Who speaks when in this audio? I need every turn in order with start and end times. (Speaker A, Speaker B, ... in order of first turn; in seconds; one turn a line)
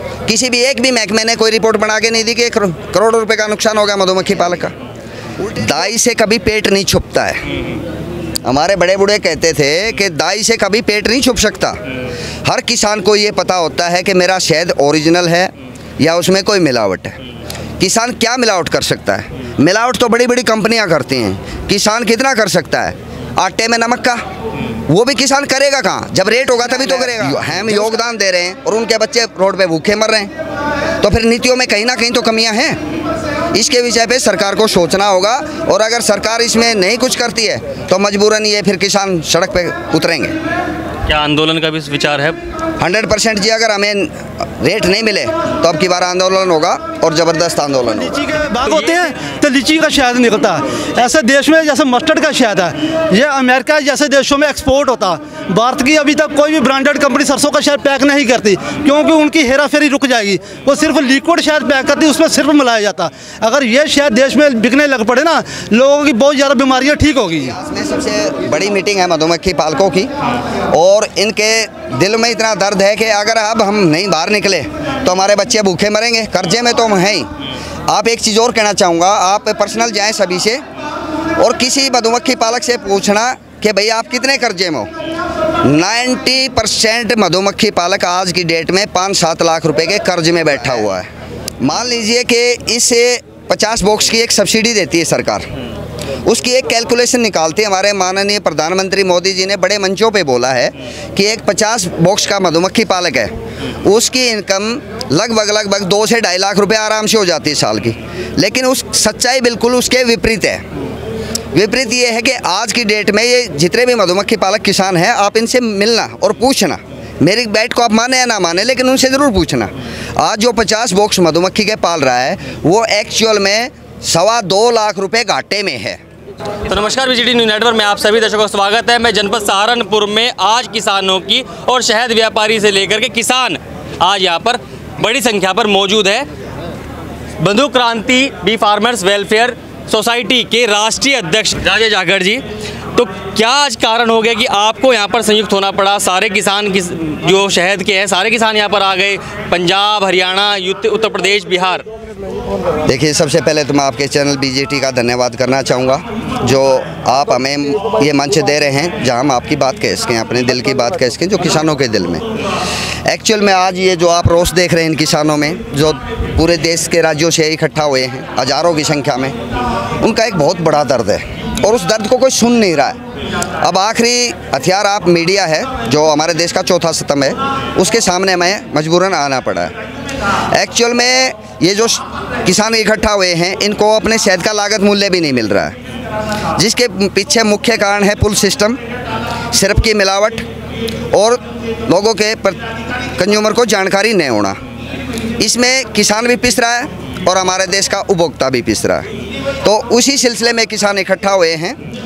Speaker A: 0.3-4.7
Speaker A: 5.4-7.7
Speaker A: 8.4-11.8
Speaker A: 12.4-17.2
Speaker A: 17.8-24.2
Speaker A: 24.9-30.3
Speaker A: 31.0-32.8
Speaker A: 33.5-40.4
Speaker B: 41.1-42.4
Speaker A: 42.8-48.2
Speaker C: 48.0-67.5
Speaker B: 48.8-49.2
Speaker A: 67.3-70.1
Speaker A: 70.7-77.3
Speaker A: 77.9-80.6
Speaker A: 81.4-84.9
Speaker A: 85.6-91.1
Speaker A: 91.6-95.5
Speaker A: 96.2-110.6
Speaker A: 111.5-126.0
Speaker B: 126.7-136.3
Speaker B: 137.4-142.4
Speaker B: 142.9-151.9
Speaker A: 152.9-162.3
Speaker A: 163.1-169.4
Speaker A: 170.0-173.0
Speaker A: 173.6-179.7
Speaker A: 180.5-185.8
Speaker A: 186.6-188.8
Speaker A: 189.5-190.5
Speaker A: 191.1-192.6
Speaker A: 193.2-194.6
Speaker A: 195.4-199.1
Speaker A: 199.6-201.8